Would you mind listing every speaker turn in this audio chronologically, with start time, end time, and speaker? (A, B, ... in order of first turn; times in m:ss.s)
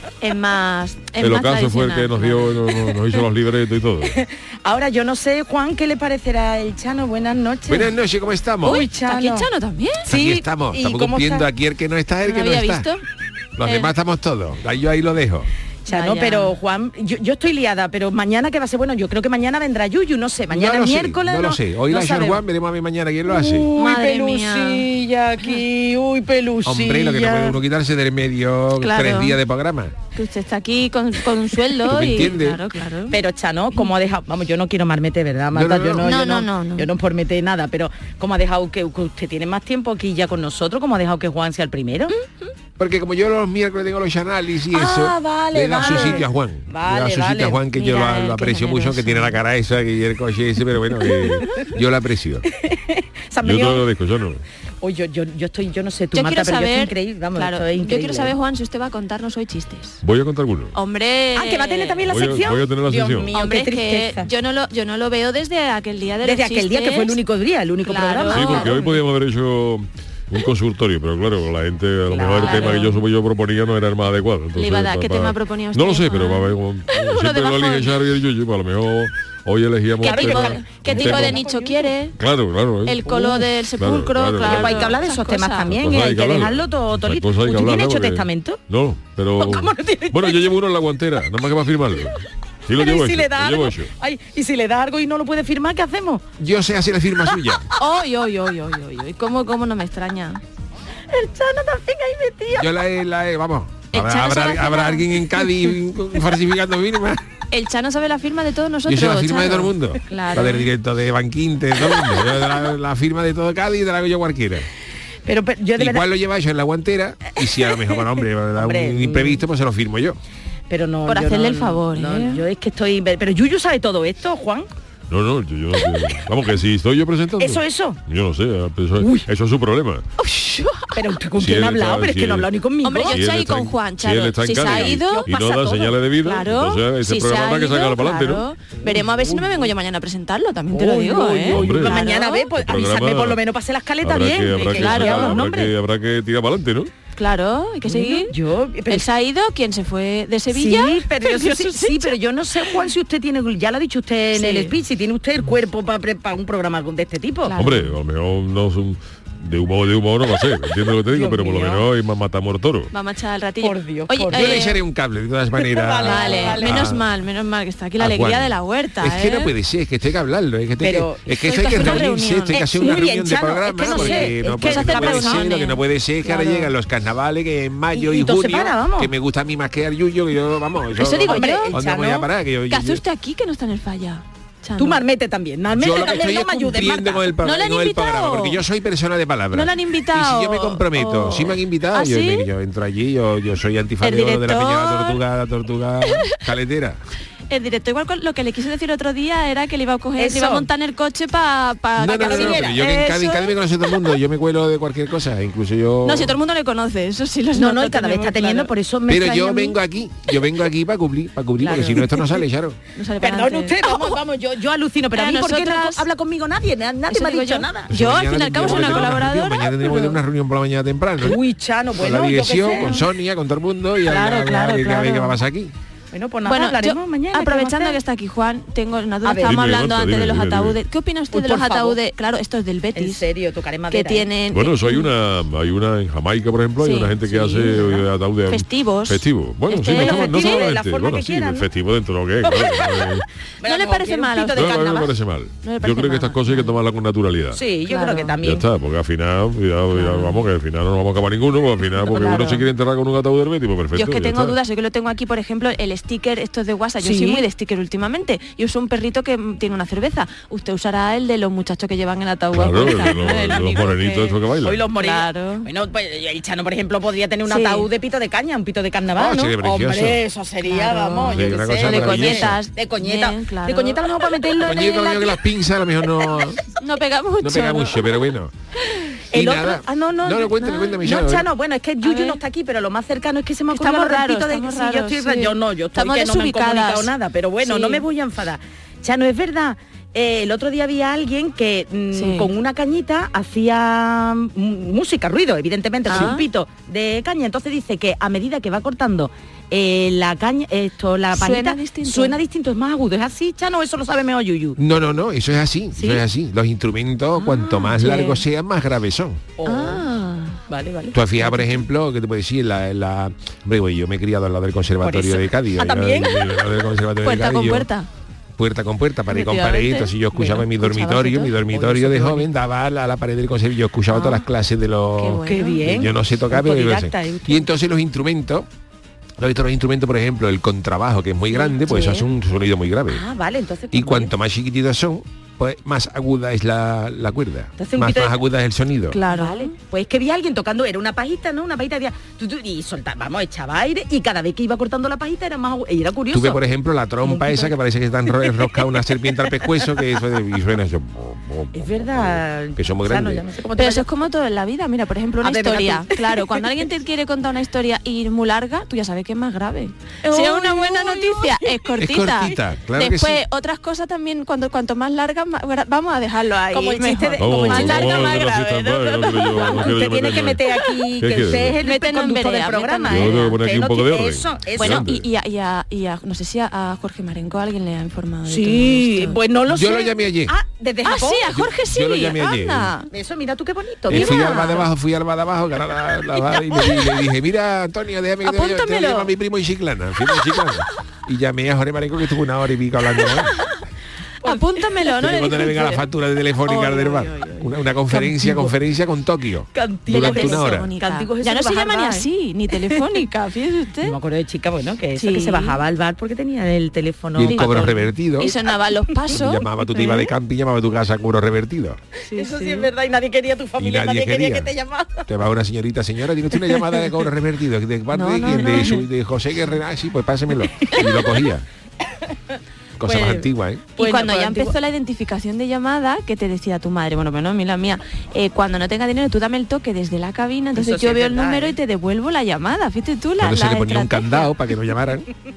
0:00.2-0:02.6 A
0:01.2-0:04.2 B
0:04.1-0:07.9 C
0:07.7-0:08.9 D
0:08.6-0:09.5 C
0:08.6-0:10.2 A
0:10.0-0:11.5 C
0:10.1-0:12.9 D
0:12.2-0:13.0 A
0:13.6-0:15.5 D
0:13.6-0:13.9 A
0:15.8-0:22.4 C
0:15.9-0:16.6 A
0:20.5-0:23.7 D
0:23.3-0:27.6 C
0:23.7-0:24.8 A
0:26.6-0:30.0 D
0:28.8-0:29.4 A
0:30.1-0:33.2 A
0:31.8-0:32.6 D
0:33.1-0:42.1 C
0:35.5-0:36.0 D
0:36.0-0:36.9 A
0:42.8-0:52.4 D
0:44.7-0:47.6 C
0:45.8-0:46.2 A
0:47.7-0:49.4 A
0:52.5-0:53.9 C
0:53.4-0:54.4 B
0:54.8-0:58.3 C
0:56.1-1:00.0 A
1:00.0-1:00.7 B
1:00.7-1:02.0 A
1:01.3-1:04.3 C
1:02.1-1:03.3 B
1:03.3-1:07.2 A
1:06.2-1:08.8 C
1:07.8-1:09.0 A
1:08.3-1:21.4 B
1:12.1-1:12.9 C
1:12.3-1:13.0 A
1:14.5-1:18.0 A
1:20.0-1:22.0 C
1:20.0-1:22.2 A
1:22.2-1:23.1 B
1:22.8-1:25.7 A
1:23.0-1:23.5 C
1:23.8-1:24.8 B
1:24.4-1:28.6 C
1:25.7-1:33.9 B
1:29.4-1:30.5 C
1:32.8-1:36.2 C
1:36.4-1:37.6 D
1:37.8-1:40.4 A
1:41.1-1:42.7 C
1:42.5-1:47.2 D
1:43.9-1:45.7 A
1:47.5-1:50.7 A
1:48.8-1:54.7 D
1:55.2-1:56.1 C
1:55.8-2:00.2 D
1:57.6-1:58.0 C
1:58.5-1:59.4 C
2:00.7-2:04.7 C
2:01.0-2:02.4 A
2:05.1-2:10.1 B
2:07.4-2:08.0 C
2:09.0-2:09.3 C
2:10.2-2:11.1 A
2:10.9-2:13.2 C
2:11.4-2:12.5 B
2:12.8-2:22.5 A
2:13.1-2:18.4 B
2:14.5-2:15.9 C
2:18.8-2:19.4 C
2:20.7-2:25.7 C
2:21.5-2:22.0 B
2:22.6-2:23.4 B
2:24.0-2:26.9 B
2:24.5-2:25.4 A
2:27.1-2:28.3 A
2:27.8-2:29.1 C
2:28.9-2:32.1 A
2:30.5-2:37.5 C
2:34.3-2:34.7 A
2:37.4-2:37.9 A
2:37.6-2:42.9 B
2:41.1-2:41.8 C
2:42.9-2:44.8 A
2:43.6-2:44.6 C
2:44.3-2:47.0 D
2:45.6-2:46.8 C
2:46.0-2:49.5 A
2:48.0-3:03.0 D
2:50.8-2:55.5 C
2:51.3-2:53.0 A
2:53.8-2:56.7 A
2:57.9-2:59.1 C
3:00.9-3:01.8 A
3:01.3-3:02.3 C
3:02.7-3:05.0 A
3:04.8-3:07.2 C
3:05.7-3:17.0 D
3:06.7-3:08.6 A
3:09.5-3:12.5 A
3:14.0-3:15.2 A
3:16.1-3:16.4 A
3:17.5-3:24.1 A
3:20.2-3:20.7 C
3:22.0-3:26.4 D
3:22.1-3:23.0 C
3:26.0-3:28.7 A
3:27.5-3:29.8 C
3:29.1-3:32.8 D
3:31.6-3:32.2 A
3:31.6-3:32.3 C
3:32.9-3:34.2 A
3:33.2-3:37.9 C
3:35.1-3:36.0 A
3:37.1-3:40.2 A
3:37.9-3:41.4 D
3:38.6-3:39.2 C
3:41.2-3:43.0 C
3:41.9-3:45.7 D
3:42.6-3:43.1 A
3:44.0-3:45.4 A
3:46.1-3:48.0 C
3:46.4-3:53.2 A
3:49.2-3:49.6 C
3:49.4-3:50.8 B
3:51.3-3:52.0 C
3:52.9-3:54.3 C
3:53.9-3:55.1 A
3:54.5-4:03.2 B
3:56.8-4:00.7 A
3:59.8-4:01.7 C
4:02.4-4:05.0 A
4:03.6-4:05.1 C
4:04.6-4:07.6 B
4:05.6-4:06.7 A
4:07.5-4:08.6 C
4:07.8-4:08.4 A
4:08.4-4:14.6 B
4:09.9-4:10.4 A
4:12.0-4:12.7 A
4:13.9-4:25.7 A
4:17.0-4:17.4 C
4:22.5-4:24.8 B
4:22.8-4:23.8 C
4:24.6-4:35.4 C
4:27.5-4:27.9 A
4:29.2-4:30.2 D
4:30.6-4:34.5 A
4:31.2-4:32.6 D
4:34.6-4:36.6 D
4:36.6-4:38.1 A
4:37.4-4:38.5 D
4:39.3-5:04.8 C
4:39.3-4:41.5 D
4:40.6-4:41.0 A
4:42.0-4:42.4 A
4:43.7-4:48.0 A
4:52.1-4:52.5 A
4:56.0-4:56.5 A
5:01.3-5:02.4 A
5:04.8-5:09.4 D
5:05.9-5:06.2 C
5:07.4-5:08.4 A
5:09.6-5:10.0 C
5:09.6-5:10.6 A
5:10.7-5:11.8 C
5:11.1-5:17.9 D
5:15.0-5:16.4 C
5:17.2-5:18.1 A
5:18.6-5:28.7 D
5:19.3-5:21.6 A
5:20.3-5:20.6 C
5:21.7-5:22.4 C
5:24.1-5:24.4 A
5:25.2-5:25.8 A
5:25.4-5:27.7 C
5:29.4-5:33.2 D
5:31.6-5:32.3 A
5:33.1-5:34.3 C
5:33.9-5:39.2 D
5:37.8-5:38.4 C
5:39.1-5:39.7 A
5:39.3-5:46.6 C
5:46.3-5:53.4 D
5:47.2-5:47.7 C
5:48.4-5:48.7 C
5:51.7-5:54.0 C
5:53.8-6:09.9 A
5:55.4-5:56.6 C
6:00.2-6:01.9 C
6:02.0-6:03.4 D
6:06.7-6:15.1 C
6:07.4-6:10.6 B
6:10.7-6:11.0 A
6:11.2-6:11.8 B
6:11.8-6:13.6 A
6:13.1-6:15.2 B
6:14.7-6:19.4 A
6:18.4-6:21.6 C
6:19.7-6:20.5 D
6:21.0-6:23.1 A
6:21.5-6:22.9 D
6:23.1-6:24.8 C
6:24.1-6:33.5 D
6:24.1-6:24.9 A
6:26.8-6:27.1 A
6:28.4-6:29.3 A
6:33.2-6:33.4 A
6:34.4-6:34.9 C
6:34.4-6:36.1 A
6:35.2-6:40.9 D
6:36.6-6:38.7 A
6:39.7-6:43.2 C
6:40.1-6:44.2 A
6:44.0-6:48.1 C
6:45.2-6:45.8 A
6:47.4-6:48.5 D
6:47.4-6:50.3 A
6:49.3-6:52.0 D
6:52.3-6:52.9 A
6:52.3-6:55.3 C
6:53.8-6:54.7 D
6:55.2-7:01.6 D
6:56.6-6:57.0 C
6:58.1-6:59.0 A
7:03.0-7:03.9 D
7:03.0-7:04.7 C
7:03.9-7:14.5 A
7:10.7-7:11.8 C
7:13.4-7:15.3 D